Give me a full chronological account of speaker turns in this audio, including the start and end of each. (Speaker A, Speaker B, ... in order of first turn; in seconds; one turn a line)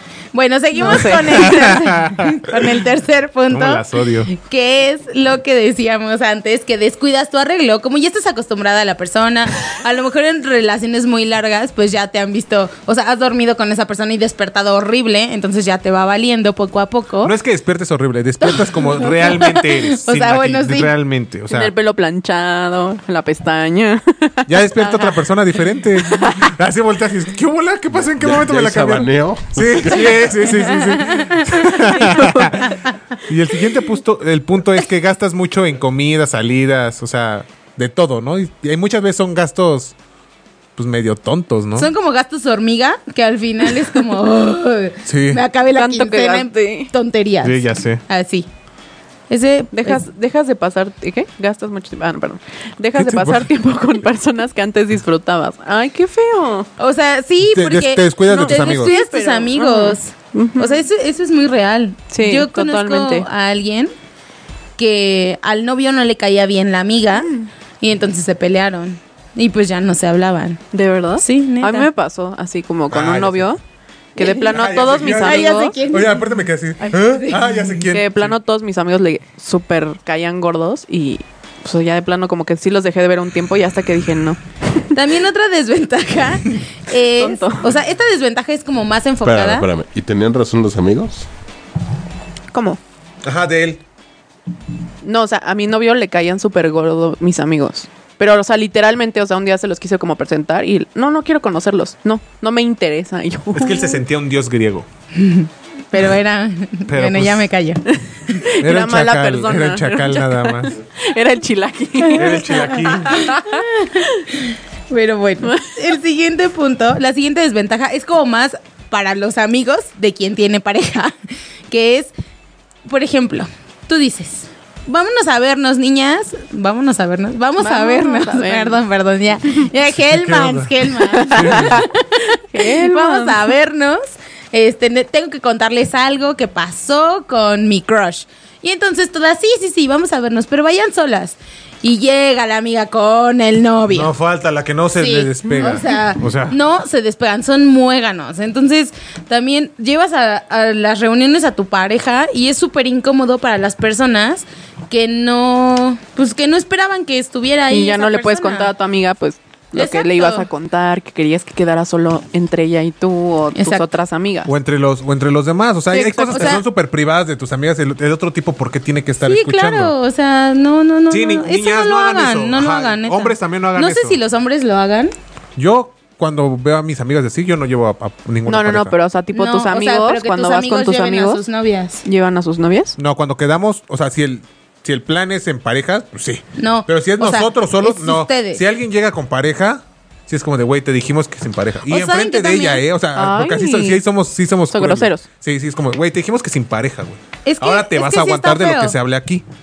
Speaker A: 0.3-17.3
Speaker B: 0.7-1.8
Speaker C: 0.8-2.7
Speaker C: 3.5-4.3
Speaker C: 17.2-21.7
Speaker A: 18.4-20.9
Speaker B: 21.5-25.3
Speaker C: 24.5-39.9
Speaker B: 26.0-26.5
Speaker D: 28.0-30.4
Speaker A: 30.7-31.5
Speaker B: 31.7-32.7
Speaker C: 40.8-41.9
Speaker A: 41.8-48.5
Speaker C: 45.0-45.4
Speaker B: 45.7-46.9
Speaker C: 47.4-48.0
Speaker A: 49.3-50.0
Speaker B: 49.7-56.7
Speaker C: 52.9-53.5
Speaker A: 56.8-63.9
Speaker C: 57.4-58.9
Speaker B: 58.3-60.8
Speaker B: 62.1-63.3
Speaker A: 64.8-70.6
Speaker B: 67.2-67.5
Speaker B: 70.7-73.6
Speaker A: 71.2-71.9
Speaker C: 72.9-73.5
Speaker B: 74.2-75.8
Speaker A: 74.2-76.2
Speaker C: 74.5-78.3
Speaker A: 76.9-77.5
Speaker B: 77.9-84.4
Speaker A: 84.9-89.7
Speaker B: 87.2-87.7
Speaker D: 89.2-91.2
Speaker B: 92.5-92.8
Speaker C: 93.2-93.8
Speaker B: 95.0-104.0
Speaker C: 103.5-104.8
Speaker A: 105.1-107.8
Speaker C: 106.9-107.5
Speaker B: 108.3-114.2
Speaker C: 108.6-110.7
Speaker A: 112.0-121.2
Speaker C: 112.1-113.3
Speaker B: 115.4-115.7
Speaker A: 121.7-122.1
Speaker A: 122.8-144.1
Speaker B: 127.6-128.8
Speaker C: 130.0-131.8
Speaker B: 131.1-133.5
Speaker C: 143.9-146.6
Speaker A: 145.0-158.7
Speaker B: 157.7-164.5
Speaker A: 159.7-160.5
Speaker A: 163.6-163.8
Speaker C: 164.4-169.9
Speaker B: 165.9-166.6
Speaker A: 166.3-166.6
Speaker A: 169.2-175.1
Speaker C: 171.1-174.2
Speaker C: 175.6-178.9
Speaker B: 178.5-181.4
Speaker A: 179.3-182.0
Speaker B: 182.0-182.9
Speaker C: 183.0-199.4
Speaker A: 186.6-188.6
Speaker A: 191.9-192.8
Speaker B: 193.2-194.0
Speaker B: 194.7-195.2
Speaker A: 197.4-198.9